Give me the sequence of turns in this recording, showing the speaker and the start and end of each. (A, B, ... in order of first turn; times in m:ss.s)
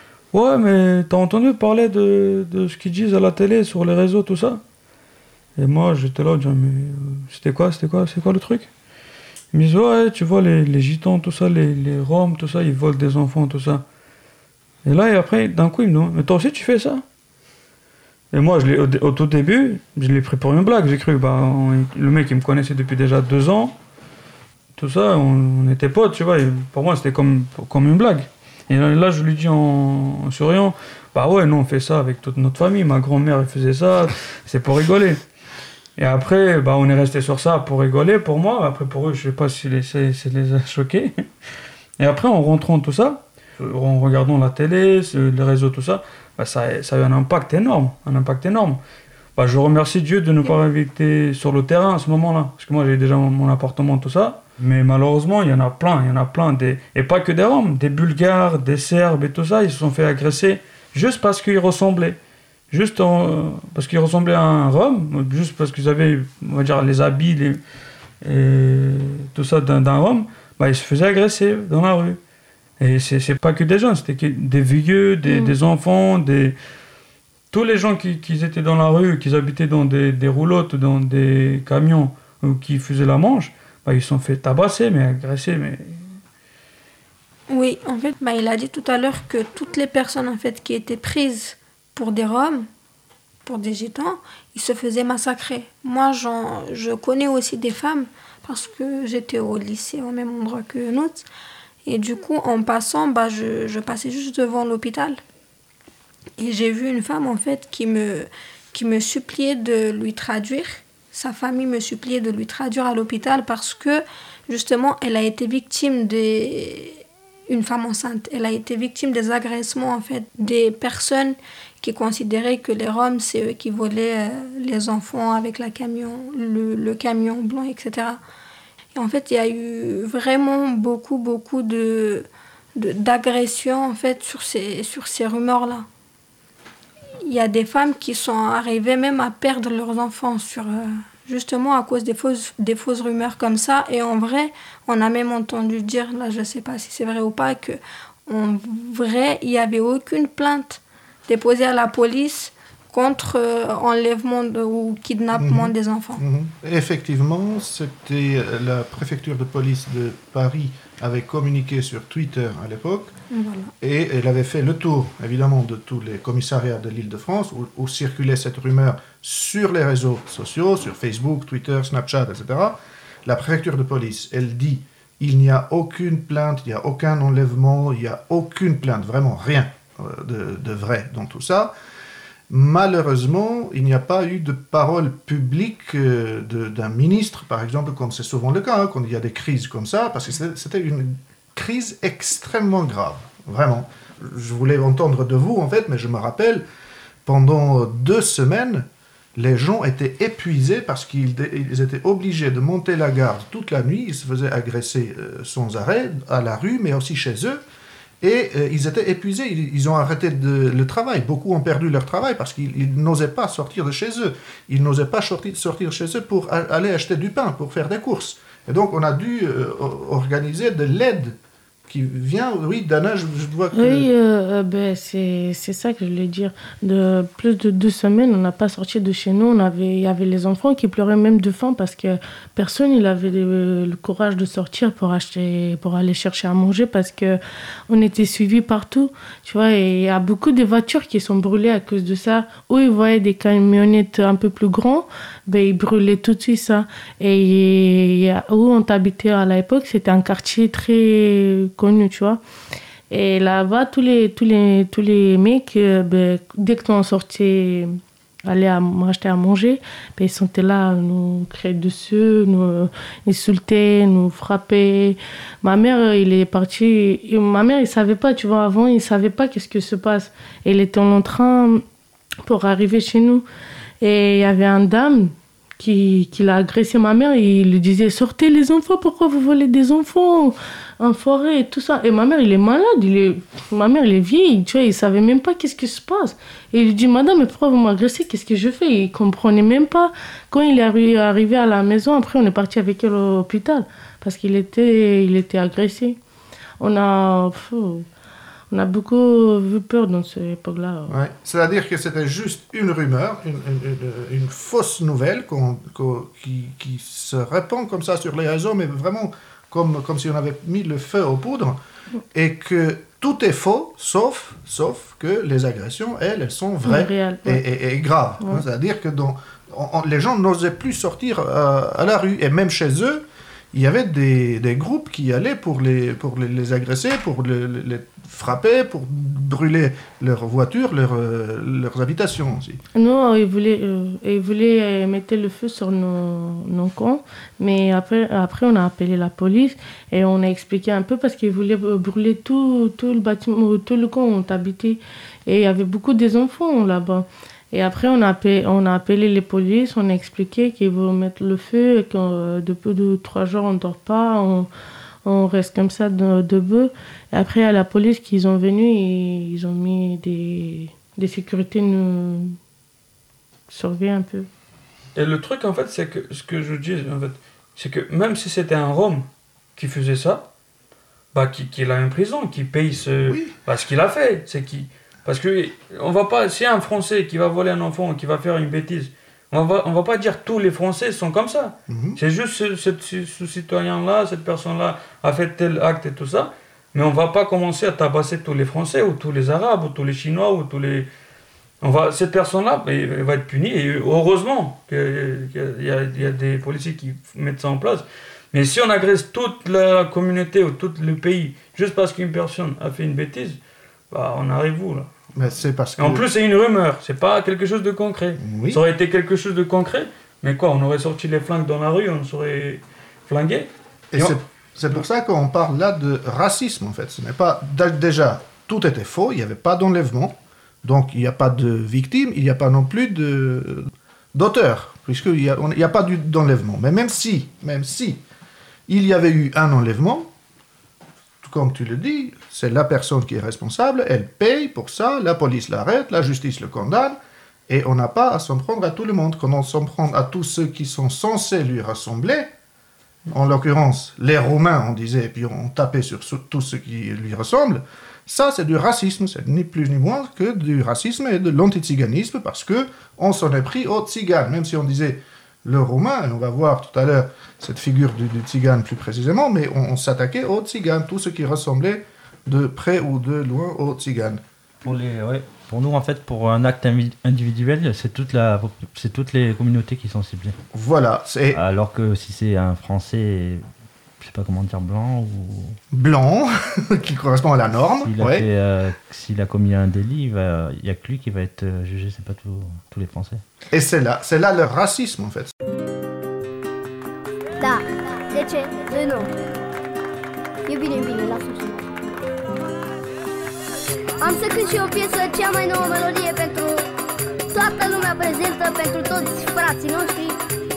0:00.3-0:04.6 A
0:05.6-0:08.7 A
0:09.5-0:13.8 A
0:14.8-0:17.0 A
0:18.3-0:23.7 A
0:24.8-0:35.2 A
0:36.0-0:41.2 A
0:42.0-0:48.8 A
0:49.4-1:02.2 A
1:02.7-1:07.6 A
1:08.2-1:12.2 A
1:12.8-1:16.6 A
1:17.5-1:26.1 A
1:27.5-1:32.7 B
1:33.4-1:41.2 B
1:41.8-1:45.2 B
1:46.4-2:08.2 B
2:08.9-2:15.8 B
2:17.3-2:36.2 B
2:35.4-2:43.1 C
2:43.3-2:43.7 B
2:43.8-3:01.7 C
3:02.5-3:16.6 C
3:17.2-3:27.6 C
3:28.2-3:41.4 C
3:41.9-3:44.1 C
3:43.7-4:12.4 D
4:13.1-4:31.8 D
4:32.4-4:33.4 D
4:34.0-4:56.2 D
4:56.8-4:58.1 D
4:58.7-5:01.1 D
5:01.1-5:11.8 C
5:12.3-5:32.8 C
5:16.8-5:17.6 D
5:32.9-5:54.7 D
5:55.2-6:02.6 D
6:03.7-6:04.5 D
6:05.1-6:10.4 A
6:11.3-6:31.1 A
6:13.2-6:13.5 C
6:21.9-6:22.2 C
6:31.8-6:43.6 A
6:44.1-6:45.1 A
6:45.4-6:46.2 C
6:46.0-6:54.4 A
6:48.4-6:48.8 C
6:54.1-7:08.2 C
7:08.9-7:10.3 C
7:11.4-7:17.2 C
7:17.7-7:22.5 C
7:23.3-7:44.4 C
7:44.8-7:50.6 E
7:50.7-7:51.6 C
7:51.5-7:53.6 E
7:54.2-7:55.8 E
7:55.9-7:58.4 C
7:58.0-8:03.4 E
8:03.7-8:05.5 C
8:07.6-8:09.3 F
8:10.7-8:11.8 F
8:14.2-8:16.9 F
8:17.5-8:20.4 F